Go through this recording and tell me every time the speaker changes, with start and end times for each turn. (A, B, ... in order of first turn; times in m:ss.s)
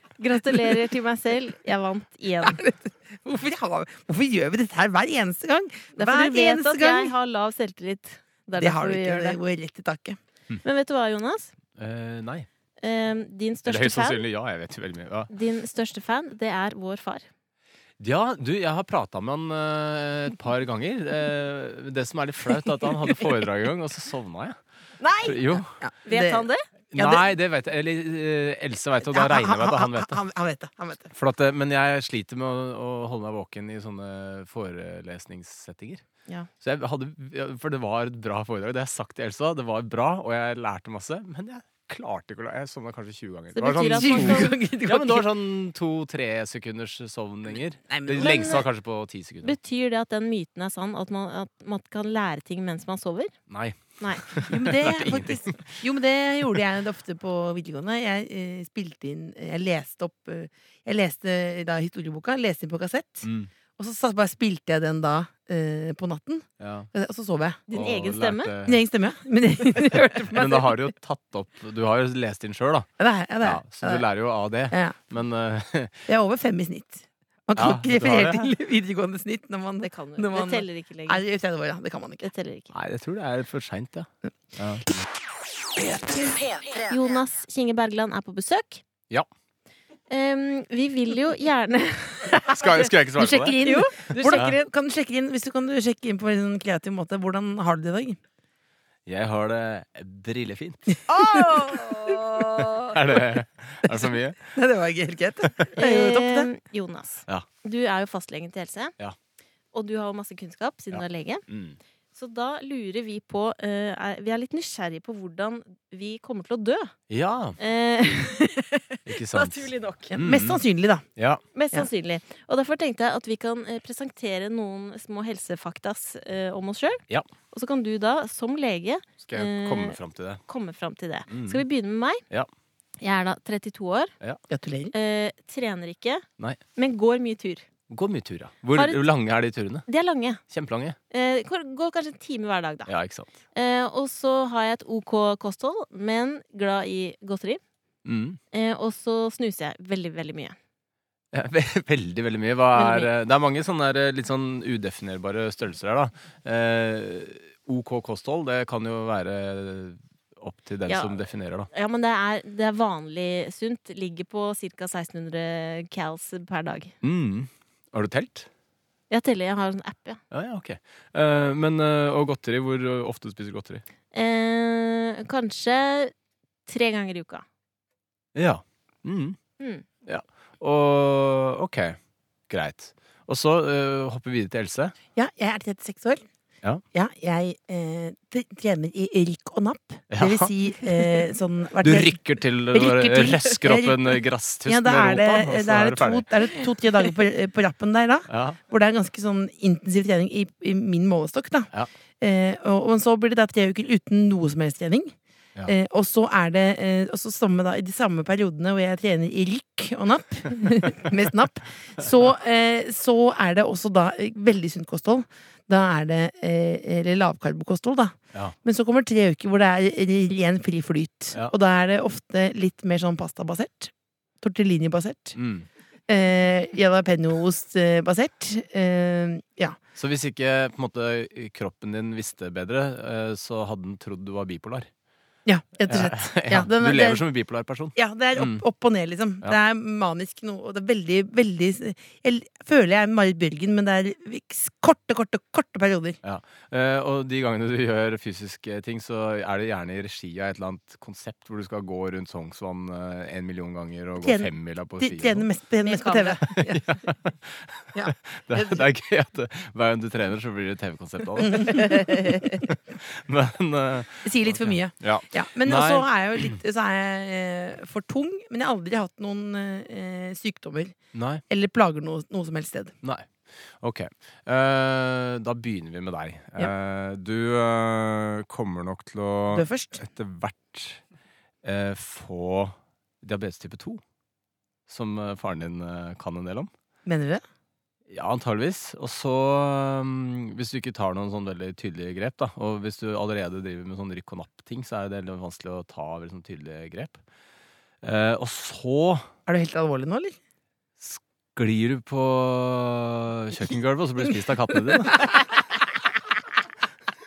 0:00.2-0:02.6 A
0:00.5-0:00.8 B
0:02.4-0:07.1 B
0:06.0-0:09.4 A
0:08.6-0:10.2 B
0:10.6-0:11.5 A
0:11.8-0:12.5 C
0:12.8-0:14.2 A
0:13.6-0:15.3 C
0:15.3-0:17.2 A
0:18.0-0:24.6 C
0:25.0-0:25.4 A
0:25.2-0:25.7 C
0:25.8-0:27.3 B
0:26.0-0:26.6 A
0:26.9-0:30.2 C
0:29.0-0:31.1 B
0:31.1-0:36.0 C
0:36.6-0:49.6 C
0:43.5-0:44.5 A
0:43.9-0:45.3 B
0:47.9-0:48.6 B
0:48.2-0:48.6 A
0:49.4-0:53.3 A
0:53.5-0:55.8 C
0:54.0-0:54.3 A
0:54.5-1:03.3 B
1:03.2-1:03.5 C
1:03.8-1:07.6 B
1:06.6-1:06.9 C
1:07.7-1:08.5 A
1:07.7-1:08.8 C
1:08.6-1:10.7 B
1:10.3-1:12.9 C
1:13.0-1:14.0 B
1:13.4-1:16.0 C
1:14.7-1:15.0 B
1:16.1-1:22.3 B
1:17.6-1:18.5 C
1:19.8-1:21.2 A
1:22.2-1:22.7 A
1:22.7-1:24.9 C
1:26.8-1:28.8 A
1:30.1-1:32.6 A
1:32.5-1:33.6 C
1:33.2-1:38.2 B
1:33.6-1:34.5 A
1:39.0-1:41.0 C
1:41.1-1:42.8 A
1:41.1-1:42.2 B
1:42.6-1:44.6 C
1:43.9-1:46.5 B
1:45.8-1:48.9 A
1:49.7-1:51.4 A
1:50.9-1:51.8 C
1:52.1-1:56.9 A
1:57.1-1:57.6 C
1:57.6-2:00.1 A
1:59.0-2:00.6 C
2:00.1-2:01.0 B
2:01.5-2:10.0 A
2:09.2-2:10.4 C
2:10.5-2:12.2 A
2:11.3-2:11.6 C
2:13.0-2:14.1 A
2:14.5-2:14.9 B
2:14.9-2:16.2 A
2:16.8-2:17.6 A
2:17.9-2:19.8 C
2:18.8-2:19.0 A
2:19.9-2:20.4 A
2:20.5-2:21.0 C
2:21.1-2:22.9 A
2:22.9-2:23.3 C
2:23.5-2:27.6 A
2:28.0-2:28.4 C
2:28.5-2:30.5 A
2:31.3-2:41.7 C
2:32.7-2:33.1 A
2:40.9-2:41.1 A
2:41.7-2:46.9 A
2:47.0-2:48.5 C
2:49.1-2:50.2 A
2:50.3-2:53.8 C
2:54.1-2:56.1 A
2:56.6-2:57.4 A
2:58.3-2:59.4 C
2:59.6-2:59.8 A
3:00.0-3:02.0 C
3:02.5-3:04.9 C
3:05.2-3:06.2 B
3:06.9-3:12.2 B
3:10.1-3:10.5 C
3:11.8-3:16.3 C
3:12.7-3:21.7 B
3:18.3-3:18.6 C
3:22.2-3:25.1 B
3:25.6-3:45.4 B
3:45.4-3:45.6 C
3:46.1-3:49.8 B
3:50.0-3:54.9 C
3:55.4-3:57.2 B
3:55.9-3:58.6 C
3:57.9-4:06.2 B
4:06.2-4:15.4 C
4:14.2-4:16.8 B
4:15.8-4:16.4 A
4:16.5-4:26.6 C
4:17.9-4:18.9 B
4:21.4-4:22.4 B
4:24.2-4:31.0 B
4:31.1-4:31.4 C
4:31.5-4:32.9 B
4:33.0-4:41.0 C
4:39.5-4:40.0 B
4:41.6-4:44.0 C
4:44.9-4:46.7 C
4:47.0-4:47.4 B
4:48.1-4:57.2 C
4:58.0-4:59.3 C
4:59.4-5:00.4 B
5:01.0-5:05.2 C
5:04.9-5:05.4 B